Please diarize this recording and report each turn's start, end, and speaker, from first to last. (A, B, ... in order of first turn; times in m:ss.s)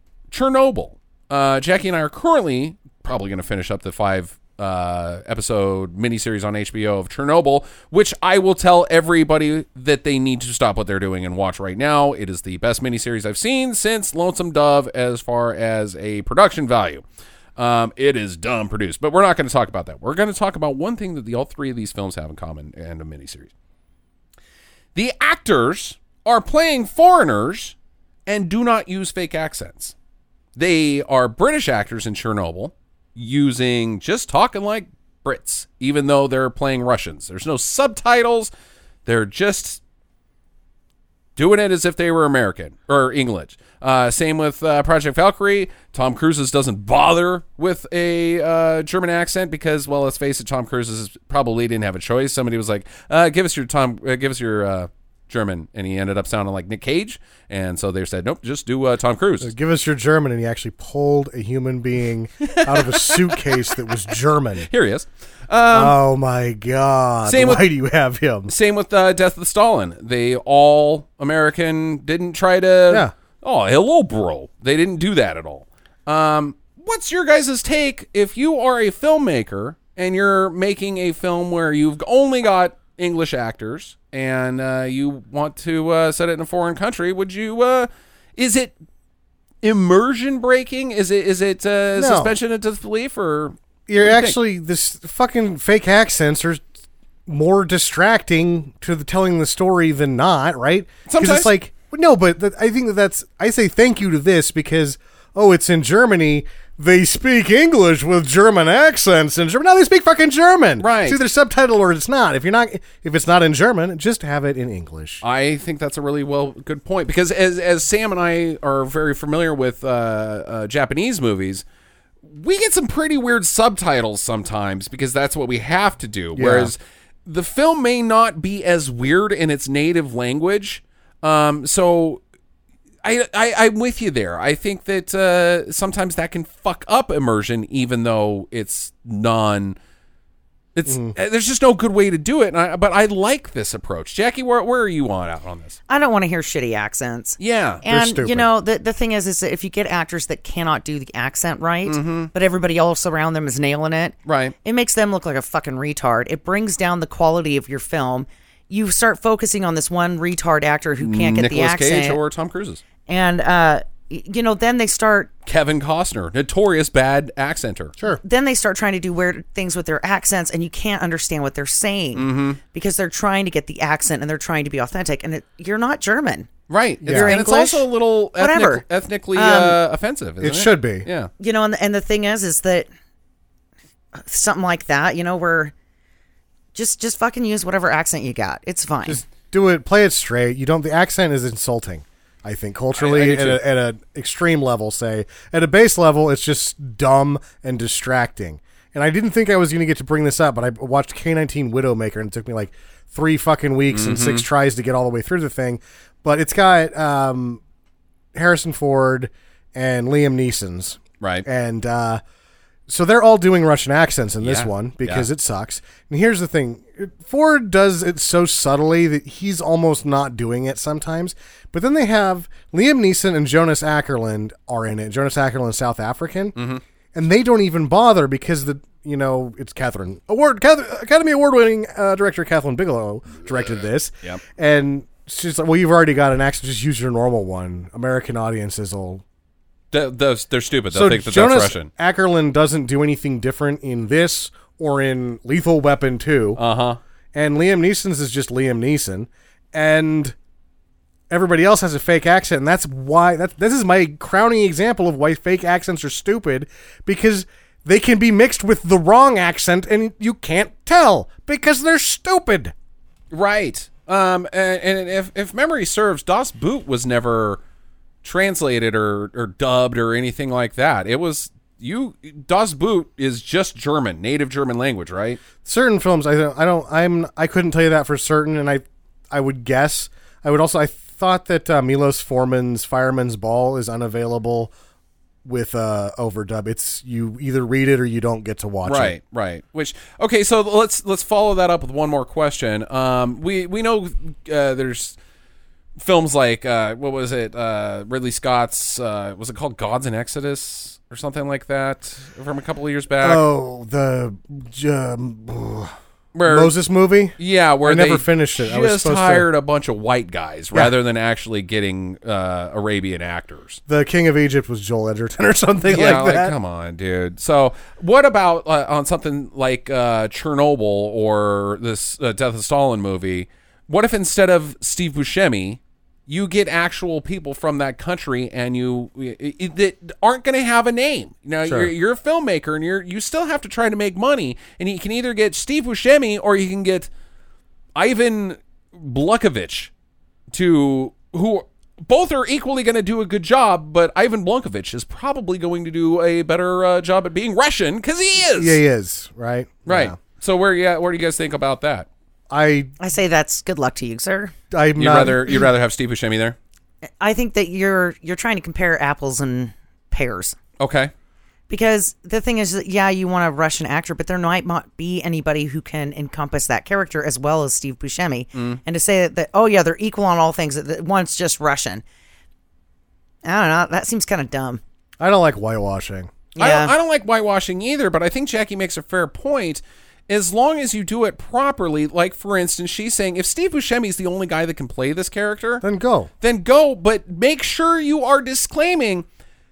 0:00.3-0:17.0 A
0:17.6-0:23.5 A
0:25.0-0:27.8 A
0:28.3-0:30.0 A
0:30.6-0:38.5 A
0:39.0-0:39.8 A
0:41.4-0:59.5 A
0:59.4-1:04.7 B
1:02.4-1:03.8 A
1:04.6-1:06.0 A
1:05.7-1:08.5 B
1:07.2-1:07.7 A
1:08.5-1:28.8 A
1:12.9-1:13.1 B
1:29.6-1:34.4 A
1:32.0-1:32.4 B
1:33.9-1:36.6 B
1:37.3-1:55.2 B
1:41.1-1:41.5 A
1:50.8-1:51.2 A
1:55.2-2:01.6 A
2:02.2-2:12.2 A
2:06.4-2:06.7 B
2:13.0-2:19.8 A
2:20.8-2:25.8 A
2:20.9-2:21.1 B
2:25.9-2:42.2 C
2:27.4-2:27.8 A
2:27.9-2:28.5 B
2:31.9-2:32.3 A
2:34.3-2:34.6 A
2:41.0-2:42.8 A
2:43.1-2:45.3 C
2:45.5-2:47.9 A
2:48.2-2:56.5 C
2:52.2-2:52.6 A
2:56.7-3:01.3 A
2:57.0-2:57.4 B
2:57.1-2:59.8 C
3:00.4-3:01.1 B
3:01.4-3:02.9 C
3:04.2-3:05.7 C
3:06.8-3:09.2 C
3:09.1-3:27.6 B
3:12.9-3:13.6 A
3:23.9-3:24.5 A
3:28.3-3:32.2 B
3:31.2-3:31.5 A
3:32.9-3:46.6 B
3:34.4-3:35.3 A
3:46.6-3:46.8 A
3:47.1-3:59.2 B
3:59.9-4:01.9 A
4:00.9-4:06.6 B
4:06.6-4:07.0 A
4:07.3-4:10.4 B
4:11.3-4:22.7 B
4:23.3-4:27.6 A
4:28.2-4:35.4 A
4:35.6-4:44.7 B
4:45.4-4:49.2 B
4:48.8-4:55.2 A
4:56.0-5:03.4 A
5:03.2-5:05.9 B
5:06.3-5:06.8 A
5:06.5-5:09.5 B
5:07.4-5:13.8 A
5:13.9-5:16.6 B
5:15.9-5:37.1 A
5:31.6-5:31.9 B
5:38.0-5:39.9 A
5:40.5-5:48.8 A
5:48.4-5:50.2 B
5:49.9-5:52.1 A
5:52.5-5:52.9 B
5:53.0-5:54.5 C
5:54.7-5:55.7 B
5:55.0-5:56.6 A
5:57.2-6:00.6 C
6:00.8-6:01.1 A
6:01.7-6:12.0 C
6:08.6-6:08.8 A
6:13.4-6:14.8 C
6:15.2-6:16.3 B
6:16.6-6:16.9 C
6:16.6-6:25.8 A
6:25.8-6:26.3 B
6:26.4-6:29.3 A